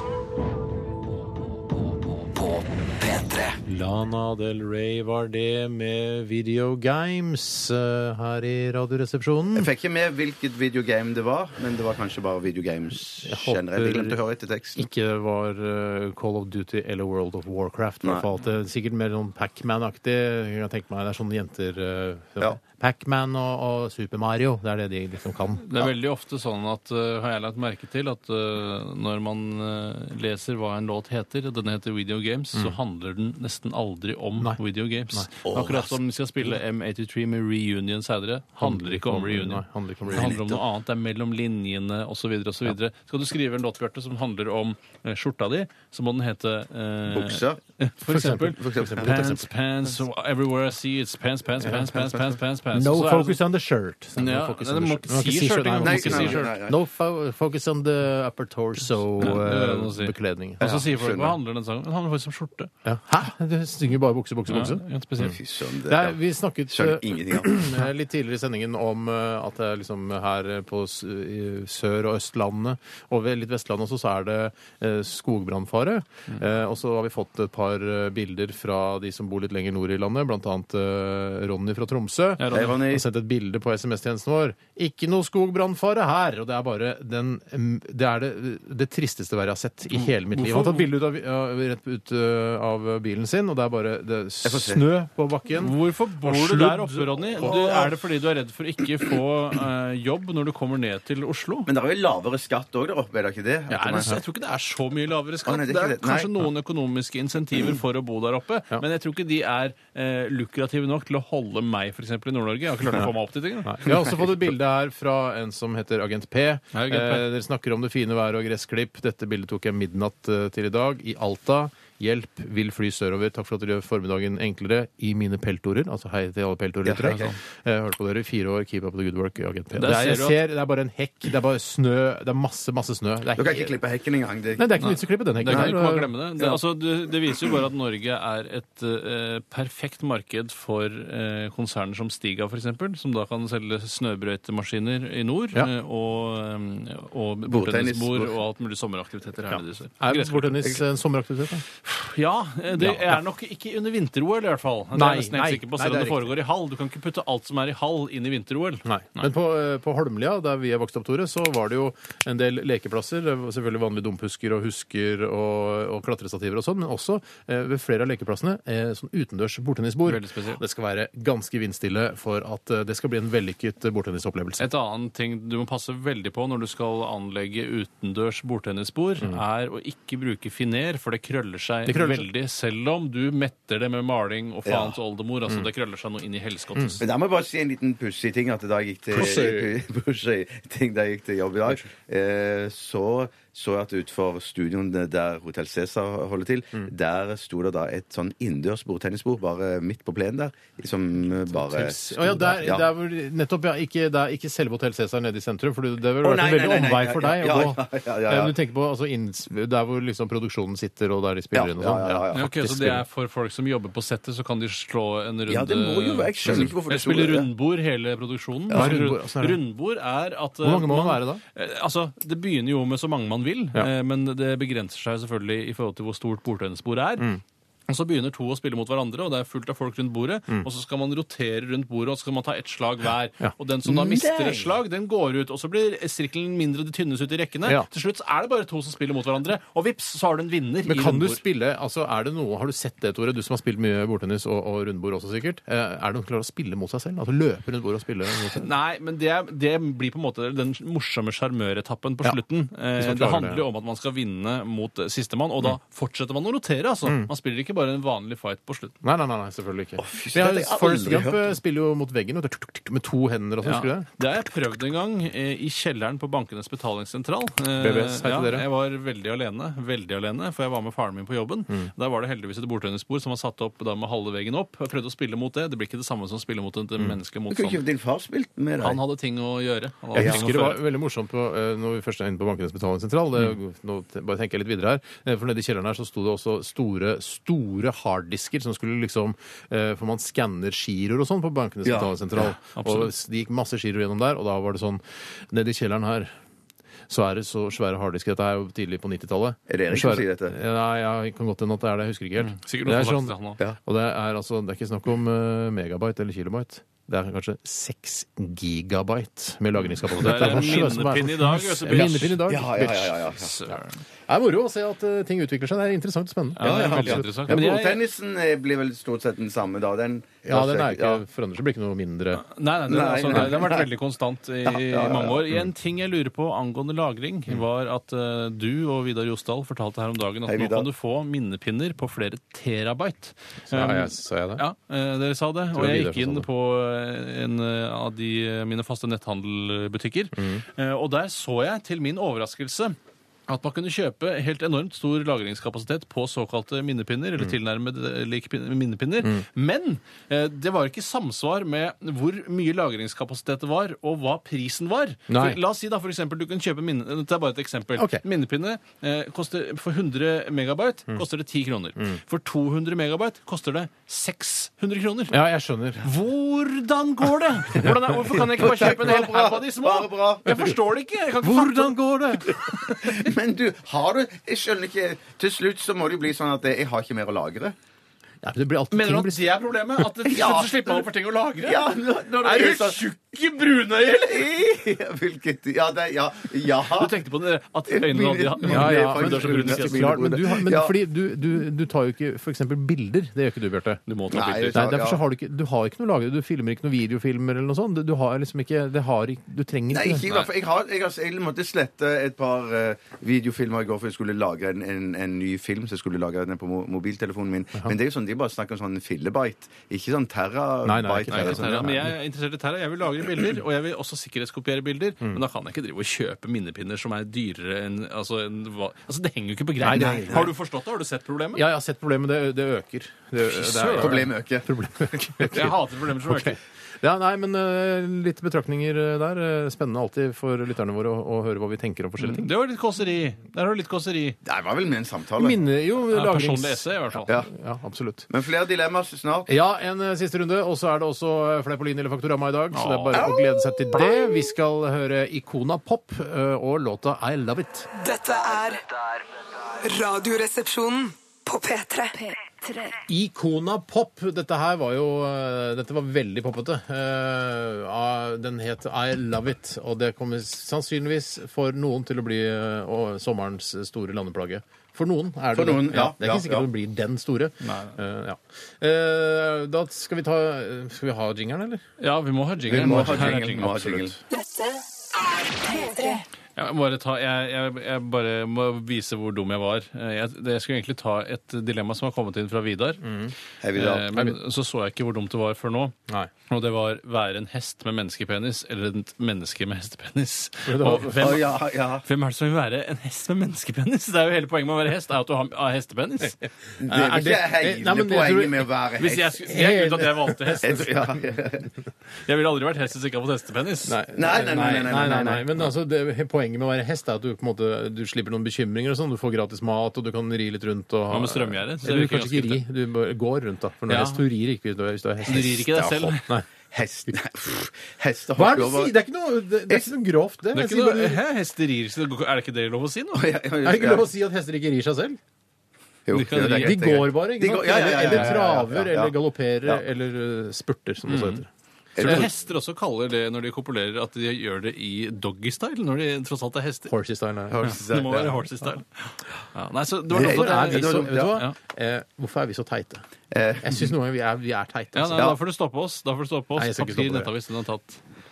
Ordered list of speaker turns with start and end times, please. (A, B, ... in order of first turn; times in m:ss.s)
0:01.7-0:03.6 A
0:03.6-0:09.7 B
0:09.6-0:14.9 C
0:13.2-0:14.2 B
0:14.8-0:25.7 B
0:25.6-0:53.4 D
0:35.4-0:36.0 C
0:38.6-0:40.4 B
0:40.1-0:40.6 C
0:47.1-0:47.6 C
0:48.1-0:49.5 B
0:48.5-0:49.3 C
0:51.6-0:52.0 B
0:52.7-1:00.7 B
0:54.2-0:56.5 D
0:55.8-0:56.8 C
0:59.2-1:02.7 D
1:00.6-1:01.4 C
1:02.8-1:05.3 B
1:04.5-1:05.4 D
1:05.2-1:06.2 C
1:05.9-1:37.9 B
1:06.7-1:07.8 C
1:22.4-1:22.8 D
1:22.5-1:23.0 C
1:29.9-1:30.9 D
1:34.4-1:34.8 C
1:35.6-1:41.7 D
1:37.4-1:37.8 C
1:41.6-1:44.2 C
1:43.7-1:54.1 D
1:45.4-1:46.3 C
1:53.6-2:13.7 B
1:56.7-1:57.3 D
2:06.8-2:07.3 C
2:09.8-2:10.4 D
2:13.3-2:14.8 C
2:14.6-2:16.1 B
2:14.8-2:30.7 D
2:15.5-2:15.8 C
2:27.5-2:28.3 C
2:29.5-2:31.6 B
2:31.8-2:39.3 D
2:32.8-2:33.2 B
2:35.0-2:36.3 B
2:38.8-2:54.7 B
2:50.0-2:50.6 D
2:54.6-3:07.0 D
3:01.9-3:02.3 B
3:04.6-3:05.0 C
3:07.0-3:22.9 C
3:09.1-3:09.7 B
3:09.2-3:09.5 D
3:21.7-3:33.0 B
3:26.2-3:28.5 C
3:31.5-3:32.5 C
3:32.3-3:47.3 D
3:35.5-3:37.5 C
3:36.4-3:36.7 B
3:38.7-3:39.6 B
3:40.6-3:41.4 B
3:47.9-4:01.4 D
3:53.8-3:54.7 C
4:00.9-4:08.7 B
4:08.5-4:19.0 D
4:13.0-4:13.6 B
4:19.0-4:24.1 B
4:20.0-4:21.6 C
4:23.6-4:37.8 D
4:27.8-4:28.6 B
4:37.5-4:39.0 C
4:38.8-4:40.8 D
4:40.1-4:40.4 C
4:40.1-4:56.3 B
4:51.8-4:52.5 C
4:52.8-4:53.1 D
4:57.1-5:13.3 B
4:59.7-5:00.6 C
5:02.4-5:03.6 D
5:10.1-5:12.4 D
5:12.5-5:13.6 C
5:13.3-5:14.0 D
5:14.3-5:17.6 B
5:16.6-5:18.0 D
5:16.6-5:21.2 C
5:20.4-5:22.4 B
5:22.4-5:43.0 D
5:22.9-5:23.9 C
5:24.6-5:25.4 C
5:30.4-5:30.9 C
5:33.7-5:34.6 B
5:35.7-5:36.4 B
5:40.4-5:40.6 B
5:43.5-6:05.4 D
5:55.3-5:55.6 B
5:58.0-5:58.2 B
6:05.3-6:06.1 B
6:06.0-6:13.2 D
6:08.5-6:10.7 C
6:11.4-6:12.6 B
6:13.0-6:17.7 C
6:18.4-6:19.5 B
6:18.9-6:24.6 D
6:20.2-6:21.1 C
6:21.6-6:23.0 C
6:24.1-6:27.1 C
6:26.9-6:30.3 D
6:27.9-6:31.0 C
6:28.6-6:34.0 B
6:34.1-6:34.8 D
6:34.3-6:35.2 C
6:34.7-6:40.3 B
6:39.9-6:52.0 C
6:50.8-6:52.1 B
6:51.3-7:01.6 D
6:59.8-7:00.5 B
6:59.9-7:00.5 C
7:01.6-7:12.5 B
7:03.4-7:04.3 D
7:03.9-7:05.2 C
7:05.5-7:06.6 D
7:12.2-7:14.4 D
7:14.4-7:15.6 C
7:15.4-7:18.3 B
7:16.1-7:17.4 D
7:18.3-7:19.5 C
7:19.5-7:27.9 B
7:22.7-7:23.3 D
7:28.0-7:28.8 E
7:28.3-7:29.3 A
7:29.8-7:33.0 E
7:33.1-7:51.8 B
7:45.5-7:46.7 C
7:47.6-7:48.0 D
7:52.0-7:54.1 D
7:52.7-7:54.2 C
7:52.7-7:54.0 B
7:55.5-7:56.2 E
7:56.6-8:03.0 D
8:03.0-8:03.3 B
8:03.6-8:04.1 C
8:03.7-8:06.0 D
8:06.5-8:16.4 D
8:10.6-8:11.4 B
8:11.1-8:12.0 C
8:16.8-8:19.4 C
8:16.8-8:18.6 B
8:19.0-8:21.0 D
8:19.5-8:20.8 B
8:20.6-8:21.7 C
8:22.3-8:24.0 D
8:23.9-8:35.6 B
8:24.1-8:25.6 C
8:31.1-8:32.6 D
8:33.9-8:34.2 D
8:35.3-8:36.3 D
8:35.3-8:39.0 C
8:38.4-8:41.2 B
8:40.5-8:43.3 D
8:43.1-8:44.1 C
8:43.6-8:45.2 B
8:46.1-8:49.8 C
8:46.1-8:46.8 D
8:46.5-8:51.5 B
8:48.0-8:48.4 D
8:51.1-8:51.4 D
8:52.0-8:52.3 C
8:52.0-8:56.9 D
8:52.0-8:52.3 B
8:56.9-8:57.8 B
8:57.5-8:58.4 C
8:57.6-9:01.6 D
9:00.1-9:01.4 C
9:00.1-9:03.0 B
9:03.3-9:03.9 C
9:03.6-9:05.3 B
9:05.0-9:08.0 D
9:06.6-9:07.3 B